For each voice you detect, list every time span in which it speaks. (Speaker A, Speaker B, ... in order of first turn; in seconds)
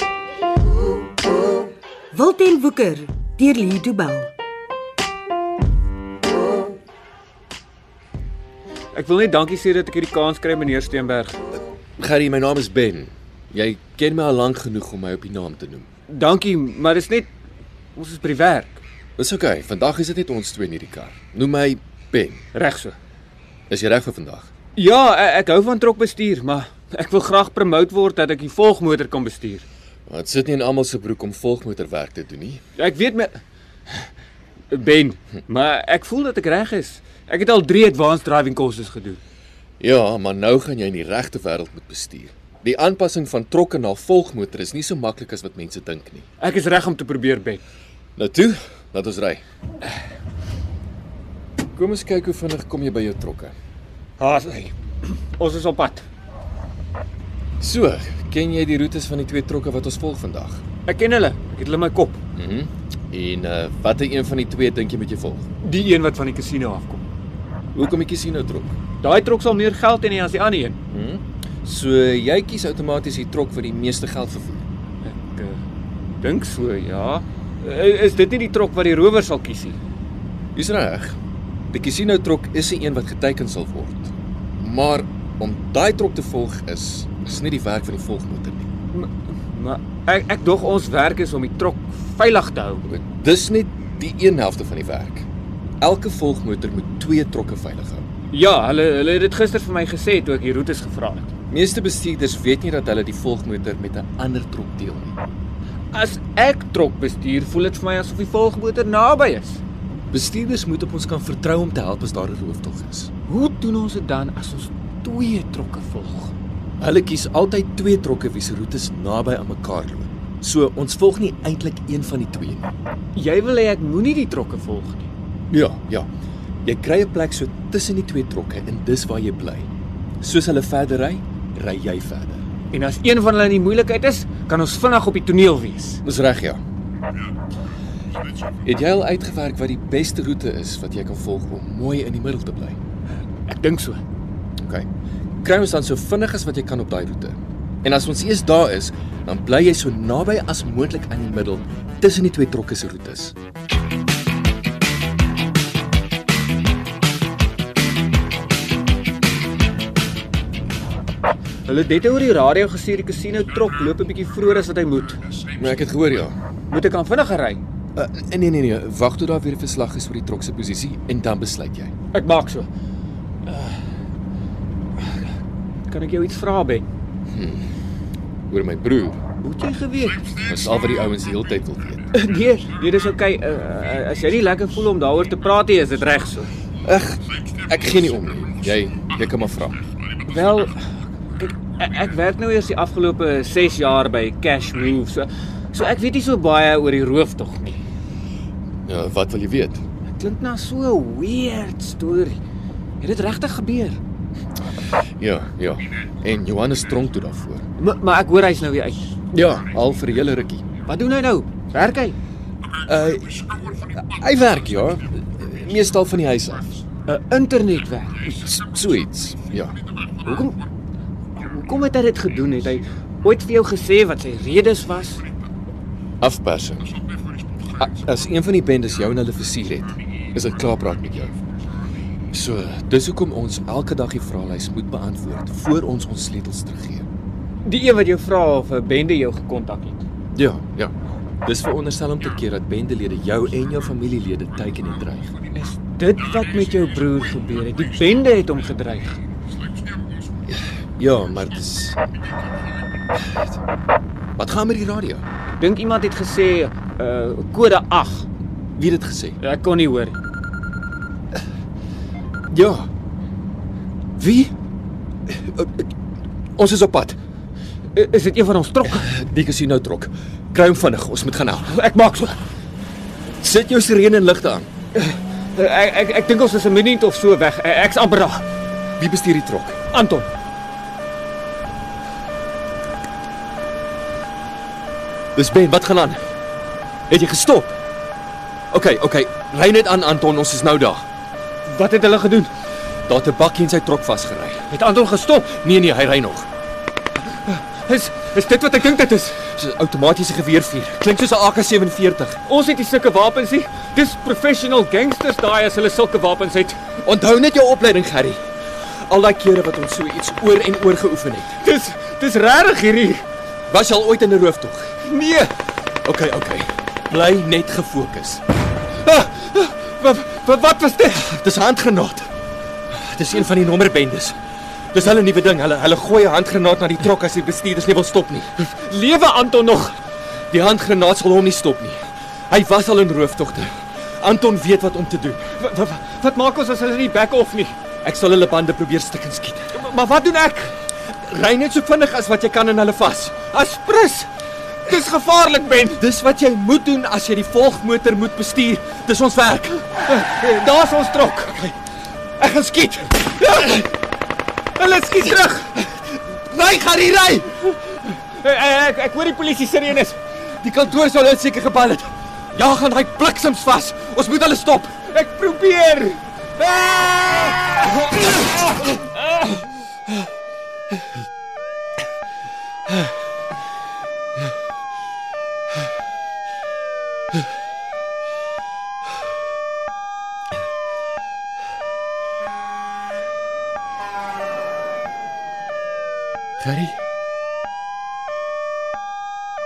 Speaker A: 2.1-4.3
Speaker B: 8.9-11.4, 16.1-17.3, 17.9-18.8, 22.5-23.0, 24.8-29.7, 32.8-33.4, 34.7-39.2, 46.4-47.6, 54.2-54.8, 55.3-56.1, 60.9-62.2, 65.6-67.0, 69.0-70.8, 75.0-75.6, 76.2-79.8, 88.9-92.9, 98.3-101.3, 105.9-109.6, 113.3-116.3, 123.2-125.1, 132.7-136.0, 143.5-144.0, 161.7-165.2, 166.7-167.6, 172.1-172.7, 173.5-173.8, 175.0-175.3, 175.9-176.9, 179.4-180.3, 182.1-186.5, 190.2-197.8, 200.1-202.4, 203.0-204.0, 207.8-209.2, 210.8-212.2, 217.1-218.4, 220.2-220.6, 221.4-225.3, 237.6-240.1, 245.5-249.2, 255.6-258.3, 259.4-260.2, 267.9-269.1, 271.7-272.4, 274.9-278.5, 279.9-280.3, 291.6-292.5, 294.7-295.6, 297.4-299.4, 302.5-306.8, 311.6-313.3, 315.1-315.5, 319.0-321.3, 328.6-330.0, 335.5-337.8, 339.8-340.8, 343.5-344.3, 344.8-346.0, 350.0-351.8, 352.4-353.5, 354.8-355.7, 357.9-360.2, 365.1-369.4
Speaker C: 12.0-15.9, 19.2-22.4, 23.7-24.5, 30.1-32.6, 39.8-46.2, 48.2-49.4, 51.7-53.5, 57.6-60.6, 62.4-65.5, 67.7-68.8, 70.9-74.7, 80.5-81.2, 81.7-88.7, 92.9-95.3, 95.8-98.0, 101.5-105.2, 110.1-113.1, 116.8-122.7, 125.5-126.1, 126.7-129.7, 130.2-132.4, 136.0-136.6, 138.6-142.8, 144.6-144.9, 145.4-153.3, 165.6-166.4, 168.0-171.9, 177.3-177.7, 178.5-179.2, 180.4-182.1, 186.8-189.8, 198.8-199.8, 205.2-207.7, 209.3-210.7, 212.8-216.8, 218.4-219.8, 226.2-226.9, 227.8-231.3, 232.3-237.1, 240.3-240.9, 241.4-245.3, 250.5-252.0, 254.4-255.2, 258.8-259.4, 262.5-262.9, 264.2-264.5, 265.3-265.9, 266.6-267.2, 268.9-271.7, 273.4-274.7, 279.0-279.8, 285.4-286.2, 287.1-287.8, 288.7-291.1, 293.1-294.7, 295.5-296.5, 299.4-302.4, 307.0-311.6, 313.7-315.0, 316.0-318.4, 321.3-322.3, 322.9-324.4, 324.9-328.5, 330.5-335.5, 338.0-339.8, 341.1-343.4, 346.0-350.0, 355.8-357.7, 360.6-365.0, 386.6-387.0